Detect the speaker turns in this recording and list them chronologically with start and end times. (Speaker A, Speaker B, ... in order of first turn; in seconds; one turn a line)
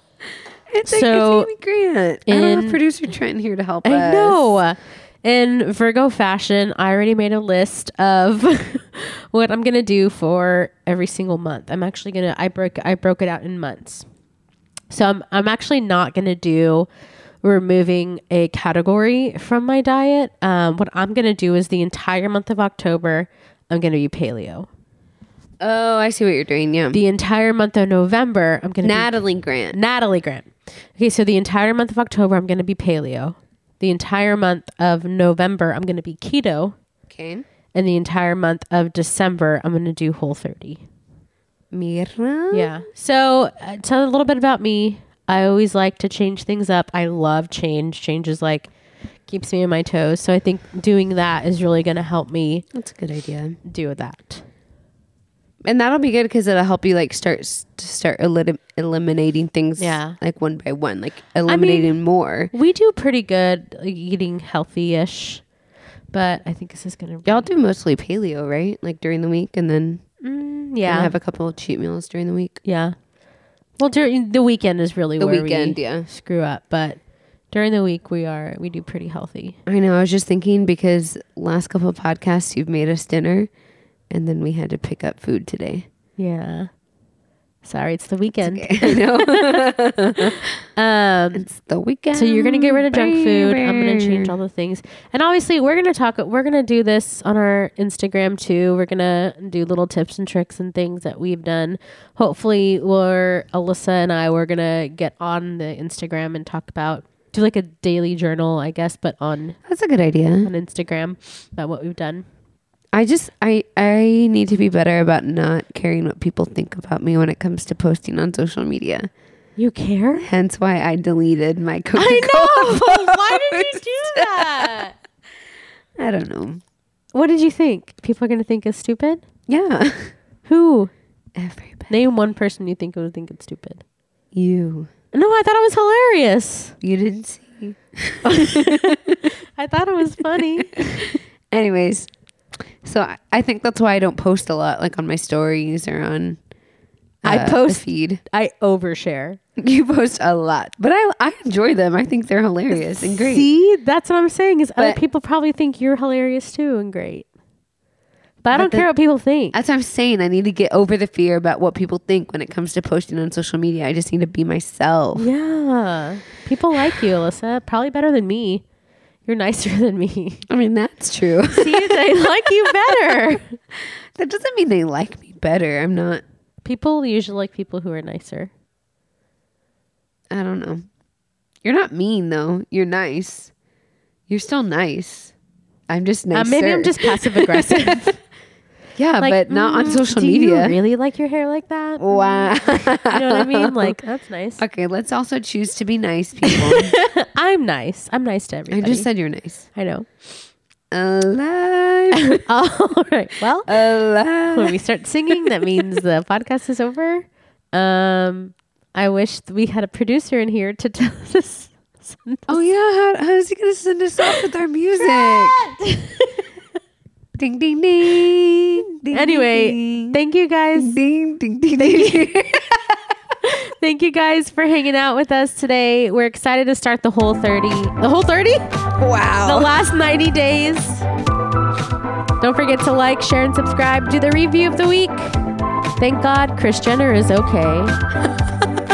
Speaker A: 0.7-4.6
Speaker B: 0.8-1.5
Speaker B: 2.3-2.8
Speaker B: 3.8-14.1
Speaker B: 14.9-16.9
Speaker B: 17.4-24.7
Speaker A: 25.6-27.0
Speaker B: 26.9-29.2
Speaker A: 28.8-29.8
Speaker B: 29.7-36.8
Speaker A: 37.1-37.5
Speaker B: 37.8-40.8
Speaker A: 41.7-42.8
Speaker B: 42.5-48.7
Speaker B: 49.3-52.7
Speaker A: 52.7-53.6
Speaker B: 53.6-54.5
Speaker A: 55.7-62.5
Speaker B: 59.8-60.2
Speaker B: 61.5-62.0
Speaker B: 62.5-65.5
Speaker B: 66.1-67.5
Speaker A: 67.2-70.0
Speaker B: 70.2-71.1
Speaker A: 70.8-72.6
Speaker B: 72.6-73.0
Speaker B: 73.8-77.0
Speaker A: 75.2-76.1
Speaker B: 77.5-79.6
Speaker A: 79.7-83.5
Speaker A: 84.1-85.8
Speaker B: 86.2-86.7
Speaker B: 87.6-89.6
Speaker A: 88.4-90.5
Speaker B: 90.2-91.5
Speaker A: 91.3-94.3
Speaker B: 92.1-109.6
Speaker A: 109.7-110.5
Speaker B: 110.4-112.3
Speaker A: 112.9-119.1
Speaker B: 119.6-120.3
Speaker A: 120.2-124.8
Speaker B: 122.0-125.0
Speaker A: 126.0-126.6
Speaker B: 127.1-129.2
Speaker A: 129.5-130.1
Speaker B: 130.5-130.9
Speaker A: 131.4-132.0
Speaker B: 131.9-133.8
Speaker A: 134.3-134.9
Speaker B: 135.1-136.8
Speaker A: 136.8-139.2
Speaker B: 138.2-141.1
Speaker A: 140.3-142.1
Speaker A: 142.8-146.4
Speaker A: 147.2-148.2
Speaker B: 147.2-149.4
Speaker A: 149.6-153.5
Speaker B: 152.7-157.3
Speaker B: 158.4-159.6
Speaker A: 158.5-158.9
Speaker A: 159.5-165.3
Speaker B: 165.2-168.6
Speaker B: 169.3-170.5
Speaker A: 170.5-173.2
Speaker B: 171.5-173.6
Speaker A: 174.2-176.2
Speaker B: 176.7-178.5
Speaker A: 180.3-180.9
Speaker A: 181.6-183.5
Speaker A: 184.3-185.3
Speaker A: 185.9-188.1
Speaker B: 186.3-188.2
Speaker A: 189.0-190.8
Speaker B: 189.2-194.6
Speaker A: 192.0-194.0
Speaker A: 194.6-197.0
Speaker B: 196.4-199.1
Speaker A: 198.7-199.7
Speaker B: 199.8-200.1
Speaker A: 200.9-202.4
Speaker B: 202.1-203.8
Speaker A: 203.7-204.8
Speaker B: 204.5-212.6
Speaker A: 212.5-215.6
Speaker B: 215.0-216.4
Speaker A: 217.4-220.2
Speaker B: 219.1-221.0
Speaker A: 220.8-223.1
Speaker B: 221.8-222.3
Speaker B: 223.4-228.7
Speaker A: 229.0-229.8
Speaker B: 229.4-231.1
Speaker B: 232.4-235.4
Speaker B: 236.0-238.0